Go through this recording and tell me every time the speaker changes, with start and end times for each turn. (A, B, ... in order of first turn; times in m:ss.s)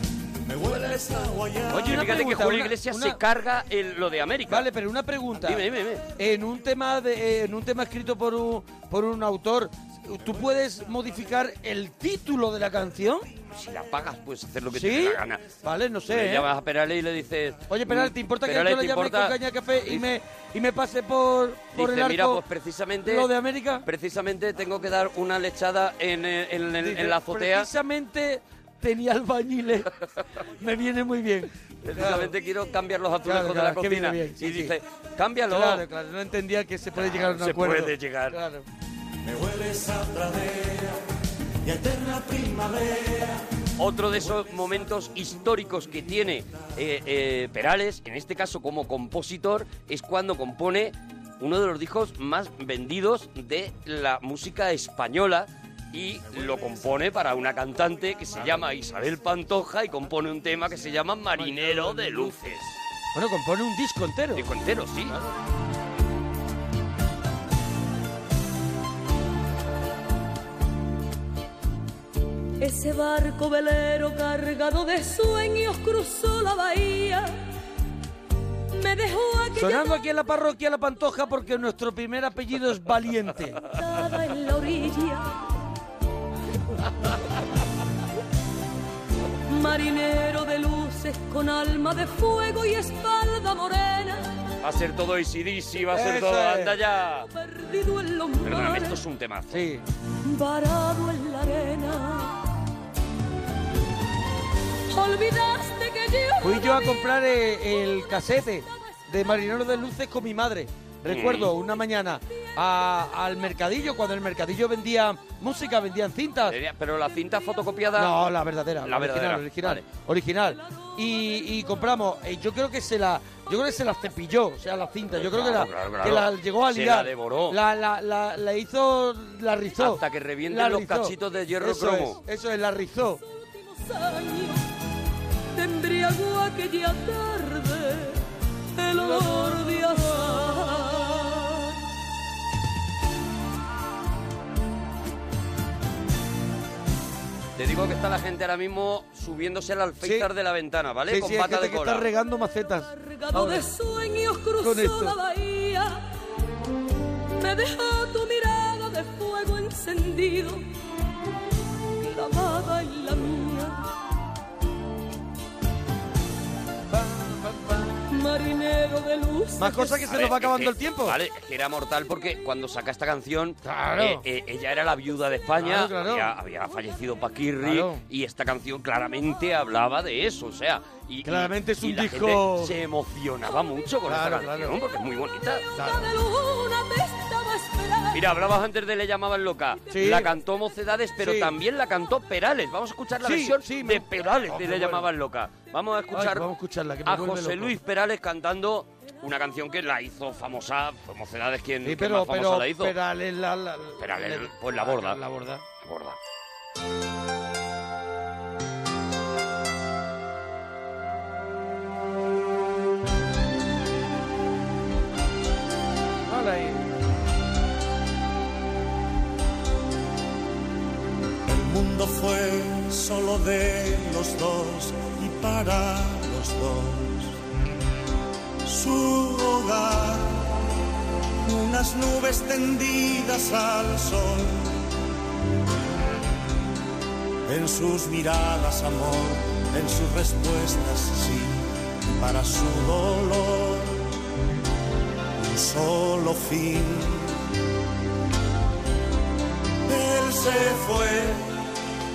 0:00.4-0:02.0 A
0:01.7-0:04.7 B
0:01.7-0:03.2 C
0:04.5-0:05.6 C
0:05.3-0:06.0 B
0:06.2-0:13.3 C
0:13.5-0:15.5 B
0:14.7-0:16.5 C
0:16.1-0:20.1 B
0:17.7-0:22.4 C
0:21.7-0:27.7 B
0:23.0-0:23.8 C
0:26.8-0:29.9 C
0:30.6-0:32.3 C
0:31.8-0:35.8 B
0:33.2-0:34.7 C
0:35.5-0:38.6 C
0:37.0-0:38.4 B
0:39.2-0:41.0 A
0:41.6-0:43.4 A
0:43.8-1:02.8 B
0:44.2-0:44.5 A
0:56.2-0:57.0 A
1:01.4-1:02.4 C
1:03.1-1:04.5 C
1:04.3-1:05.2 B
1:12.6-1:17.4 D
1:18.8-1:20.1 D
1:19.5-1:23.7 C
1:23.7-1:25.4 D
1:29.5-1:34.3 D
1:34.6-1:37.3 B
1:35.9-1:36.8 C
1:37.2-1:39.0 D
1:38.4-1:39.7 B
1:39.5-1:39.8 C
1:40.2-1:42.4 D
1:44.9-1:48.8 D
1:46.4-1:56.6 C
1:51.0-1:51.5 B
1:56.4-1:58.2 B
1:57.9-2:13.2 C
1:58.8-1:59.9 B
2:05.1-2:07.6 B
2:09.8-2:12.2 B
2:13.2-2:14.6 D
2:15.5-2:18.2 D
2:18.8-2:21.8 D
2:19.0-2:19.7 C
2:27.6-2:32.1 B
2:30.0-2:30.3 C
2:31.1-2:33.7 C
2:32.9-2:36.0 D
2:34.6-2:35.2 C
2:37.4-2:40.6 D
2:42.0-2:43.8 D
2:46.9-2:47.9 C
2:48.1-2:50.0 D
2:49.6-2:51.2 C
2:50.0-3:05.6 B
2:53.6-2:54.2 C
2:55.6-2:56.3 C
2:57.6-2:58.0 C
3:01.2-3:02.8 C
3:04.0-3:04.8 C
3:05.6-3:08.2 D
3:05.7-3:06.1 C
3:08.1-3:16.5 B
3:09.9-3:10.3 C
3:11.2-3:11.6 C
3:13.2-3:15.1 C
3:16.1-3:17.8 C
3:17.0-3:23.0 B
3:21.8-3:25.6 C
3:24.0-3:25.2 B
3:25.8-3:26.2 B
3:36.3-3:36.8 C
3:41.5-3:47.4 A
3:48.6-3:50.6 A
3:51.4-3:54.8 A
3:57.5-4:04.0 A
4:05.4-4:07.4 A
4:09.9-4:11.5 A